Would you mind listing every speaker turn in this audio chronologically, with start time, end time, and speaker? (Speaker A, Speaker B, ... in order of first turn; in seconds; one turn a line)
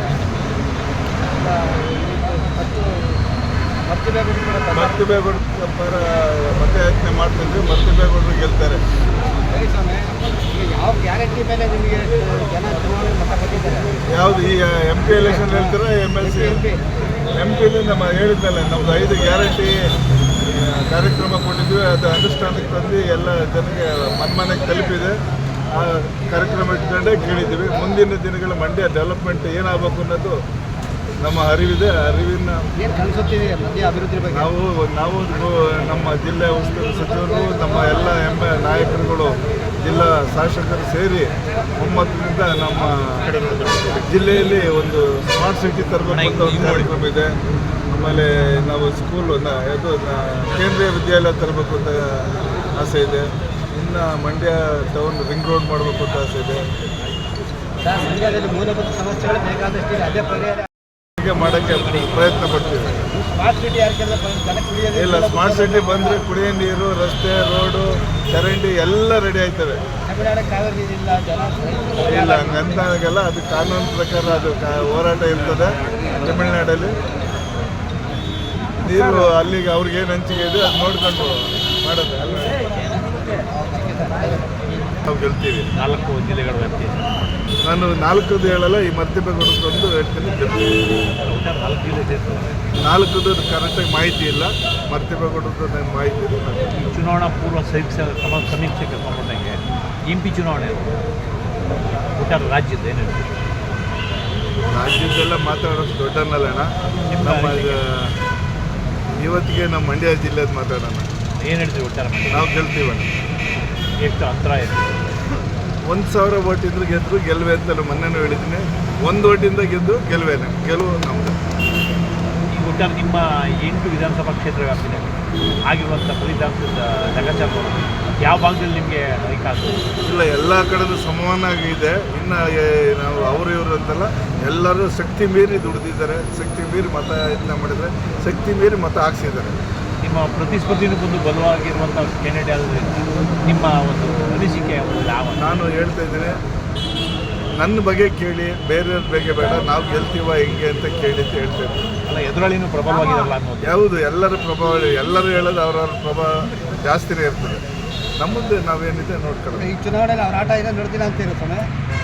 Speaker A: 1.2-2.9
Speaker A: 3.9-5.1
Speaker B: 4.7-8.8
Speaker A: 9.5-13.9
Speaker B: 14.1-16.6
Speaker A: 15.1-16.8
Speaker B: 17.4-19.8
Speaker B: 20.4-25.1
Speaker B: 25.8-30.4
Speaker B: 31.2-32.6
Speaker A: 32.8-34.5
Speaker B: 34.3-41.3
Speaker B: 41.8-43.2
Speaker C: 43.2-44.0
Speaker B: 43.9-47.3
Speaker C: 46.1-47.0
Speaker B: 47.9-56.6
Speaker A: 57.8-60.6
Speaker B: 61.2-63.1
Speaker A: 63.3-66.2
Speaker B: 65.0-69.8
Speaker A: 70.1-72.9
Speaker B: 72.1-76.9
Speaker B: 78.8-82.6
Speaker A: 83.5-85.0
Speaker B: 85.1-85.7
Speaker C: 85.8-87.1
Speaker B: 87.7-90.7
Speaker C: 91.3-92.7
Speaker B: 92.8-96.8
Speaker C: 96.8-99.5
Speaker C: 100.1-101.0
Speaker C: 102.2-103.3
Speaker B: 104.7-106.7
Speaker C: 107.1-107.8
Speaker B: 107.2-108.1
Speaker B: 109.2-111.1
Speaker C: 111.4-112.5
Speaker B: 112.3-113.1
Speaker C: 114.0-115.2
Speaker B: 115.9-121.4
Speaker C: 122.5-125.1
Speaker C: 125.7-129.9
Speaker B: 130.0-139.6
Speaker C: 140.0-145.5
Speaker B: 145.4-146.4
Speaker B: 147.6-151.8
Speaker C: 152.1-153.8
Speaker B: 153.7-157.6
Speaker B: 158.2-159.7
Speaker A: 159.6-161.6